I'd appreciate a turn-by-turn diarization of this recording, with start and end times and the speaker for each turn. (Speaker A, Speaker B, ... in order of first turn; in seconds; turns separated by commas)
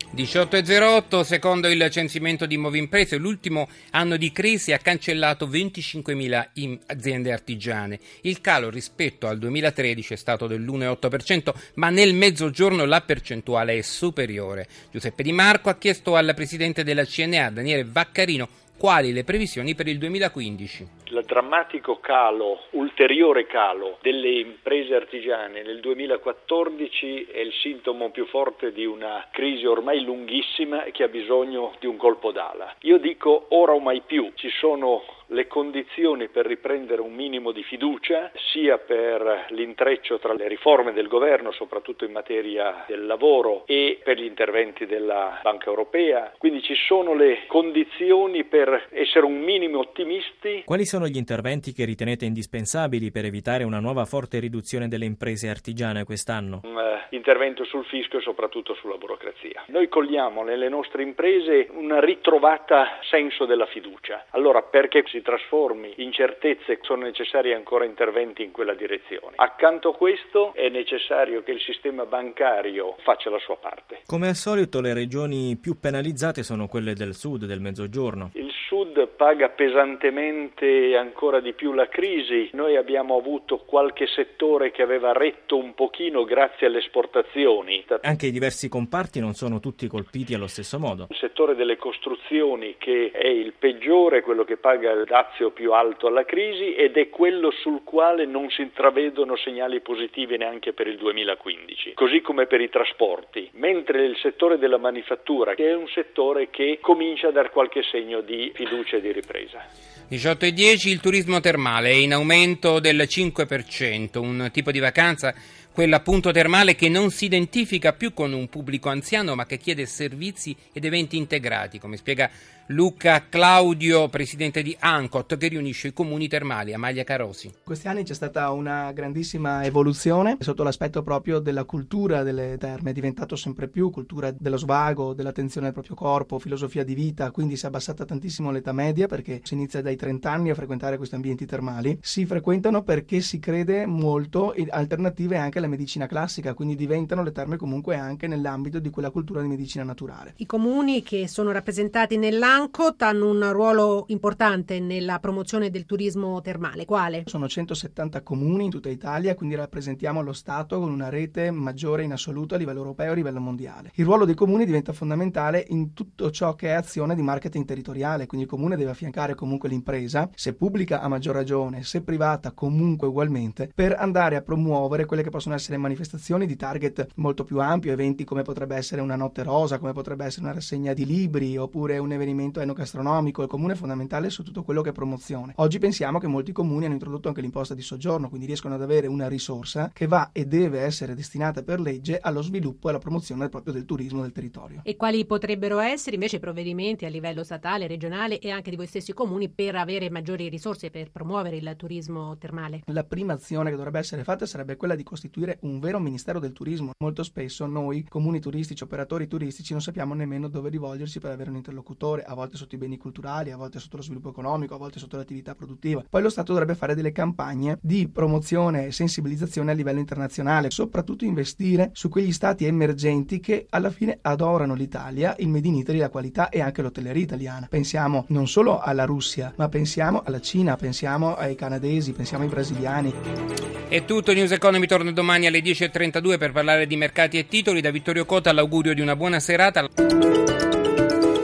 Speaker A: 0.1-20.9, Speaker B: 21.1-50.6, Speaker C: 50.7-56.6, Speaker B: 56.7-74.0, Speaker C: 74.1-78.3, Speaker B: 78.3-88.0, Speaker C: 88.0-91.1, Speaker B: 91.1-109.6, Speaker A: 110.1-127.5, Speaker D: 127.7-150.3, Speaker E: 150.4-157.2, Speaker D: 157.3-194.8, Speaker E: 194.8-202.8, Speaker D: 202.9-233.2, Speaker A: 233.9-239.9